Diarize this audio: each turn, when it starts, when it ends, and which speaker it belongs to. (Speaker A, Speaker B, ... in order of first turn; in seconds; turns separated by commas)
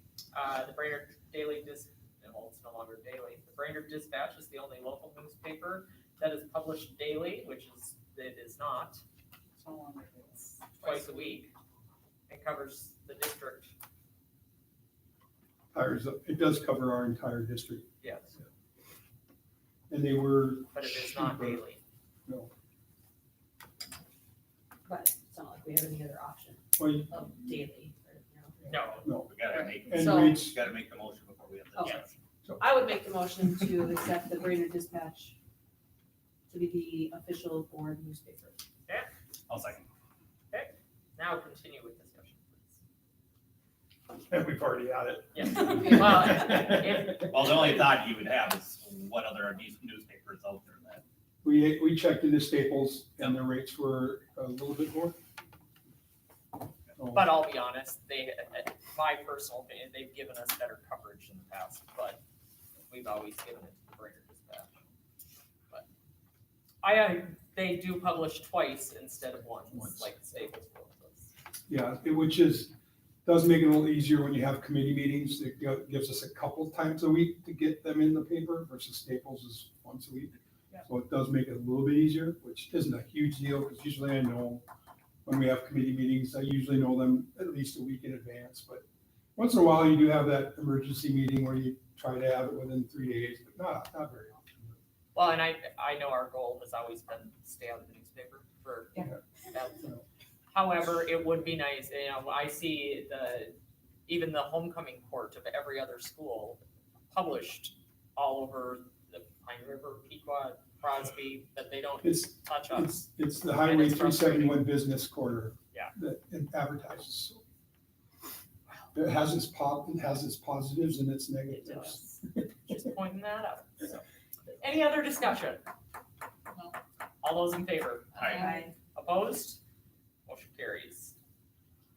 Speaker A: 0.3-9.0, Speaker B: 9.6-11.4, Speaker A: 10.8-11.5, Speaker A: 12.3-13.7, Speaker C: 15.7-17.9, Speaker A: 18.0-18.4, Speaker C: 19.9-21.6, Speaker A: 20.7-21.8, Speaker D: 24.9-28.9, Speaker C: 26.8-27.1, Speaker C: 28.6-29.3, Speaker A: 28.7-29.1, Speaker E: 29.2-32.1, Speaker C: 29.9-30.6, Speaker D: 30.0-30.3, Speaker A: 31.8-32.1, Speaker D: 32.6-35.4, Speaker D: 36.5-38.6, Speaker E: 39.5-39.9, Speaker A: 40.5-42.8, Speaker C: 44.3-47.0, Speaker A: 45.3-47.8, Speaker E: 47.1-51.0, Speaker C: 51.4-55.1, Speaker C: 57.0-57.3, Speaker A: 57.1-62.2, Speaker A: 62.9-64.7, Speaker A: 66.8-71.3, Speaker C: 71.7-72.7, Speaker C: 73.2-84.6, Speaker C: 85.2-88.8, Speaker C: 89.3-94.8, Speaker A: 95.1-99.9, Speaker A: 100.5-103.5, Speaker A: 104.1-113.0, Speaker C: 112.0-117.4, Speaker A: 113.5-114.7, Speaker C: 118.9-122.4, Speaker A: 121.5-124.0, Speaker A: 124.6-125.6, Speaker B: 126.5-126.8, Speaker A: 127.2-129.6, Speaker E: 128.2-128.4, Speaker B: 128.2-128.4, Speaker D: 128.2-128.7, Speaker A: 130.2-131.1